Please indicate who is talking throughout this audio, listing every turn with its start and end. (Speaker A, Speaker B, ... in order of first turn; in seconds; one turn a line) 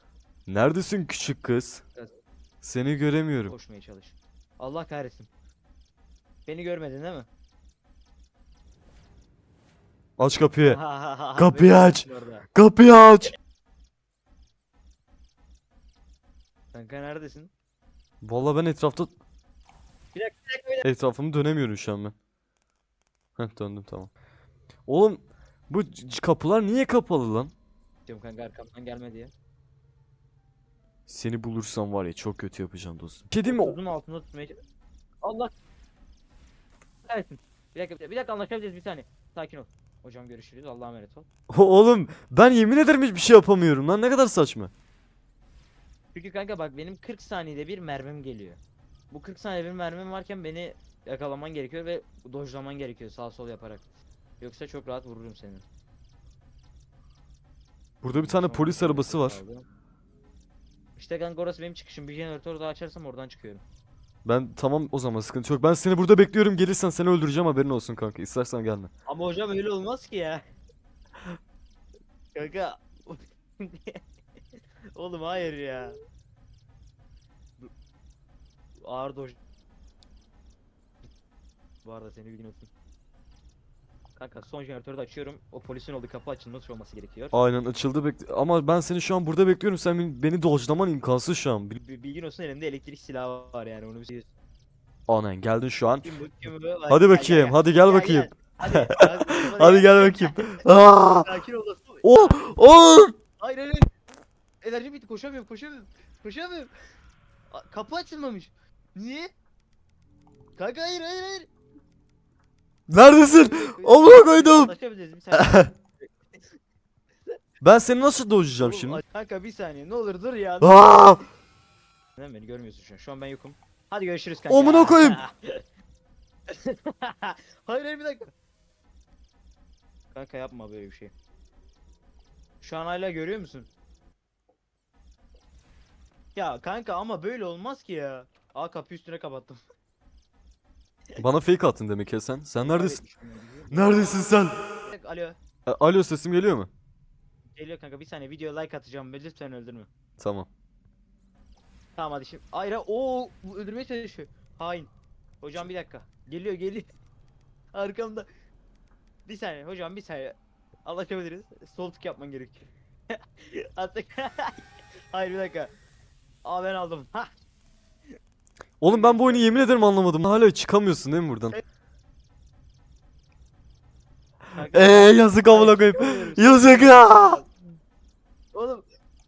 Speaker A: 0.5-1.8
Speaker A: 2.6-3.5
Speaker B: 3.5-5.3
Speaker B: 6.5-7.3
Speaker A: 10.2-10.8
Speaker B: 10.6-12.5
Speaker A: 11.3-13.3
Speaker B: 16.7-17.5
Speaker A: 18.2-19.1
Speaker B: 20.1-20.9
Speaker A: 20.8-22.1
Speaker A: 23.4-24.1
Speaker A: 24.9-27.5
Speaker B: 28.1-29.3
Speaker A: 31.1-33.8
Speaker B: 33.4-34.6
Speaker B: 35.2-35.5
Speaker B: 37.1-41.3
Speaker A: 41.5-44.7
Speaker B: 46.1-53.9
Speaker B: 54.4-55.6
Speaker A: 58.0-59.4
Speaker B: 58.1-59.6
Speaker B: 61.0-63.6
Speaker A: 64.2-68.9
Speaker B: 69.1-70.4
Speaker B: 72.3-74.0
Speaker B: 74.9-76.0
Speaker B: 78.8-79.4
Speaker B: 81.8-82.7
Speaker B: 84.2-87.4
Speaker A: 87.3-91.8
Speaker B: 91.8-94.3
Speaker A: 95.1-96.1
Speaker B: 96.0-100.6
Speaker A: 96.9-101.3
Speaker B: 101.2-102.5
Speaker A: 102.0-103.1
Speaker B: 103.4-103.9
Speaker B: 104.6-106.7
Speaker B: 107.5-109.3
Speaker B: 110.6-111.5
Speaker A: 112.9-114.7
Speaker B: 113.2-115.8
Speaker A: 115.3-115.7
Speaker A: 117.6-119.0
Speaker B: 118.6-120.8
Speaker A: 120.6-121.2
Speaker B: 122.2-125.6
Speaker A: 124.5-125.2
Speaker B: 126.5-128.3
Speaker B: 130.1-131.1
Speaker B: 132.6-133.7
Speaker B: 136.3-139.6
Speaker A: 141.2-143.0
Speaker B: 142.6-145.4
Speaker A: 143.7-144.6
Speaker A: 145.7-146.7
Speaker B: 147.5-149.9
Speaker A: 150.2-150.5
Speaker B: 151.9-156.9
Speaker B: 157.7-158.3
Speaker B: 159.2-165.7
Speaker B: 166.4-167.4
Speaker A: 168.8-171.6
Speaker B: 168.8-169.8
Speaker B: 174.5-177.5
Speaker A: 174.7-177.4
Speaker B: 178.5-178.9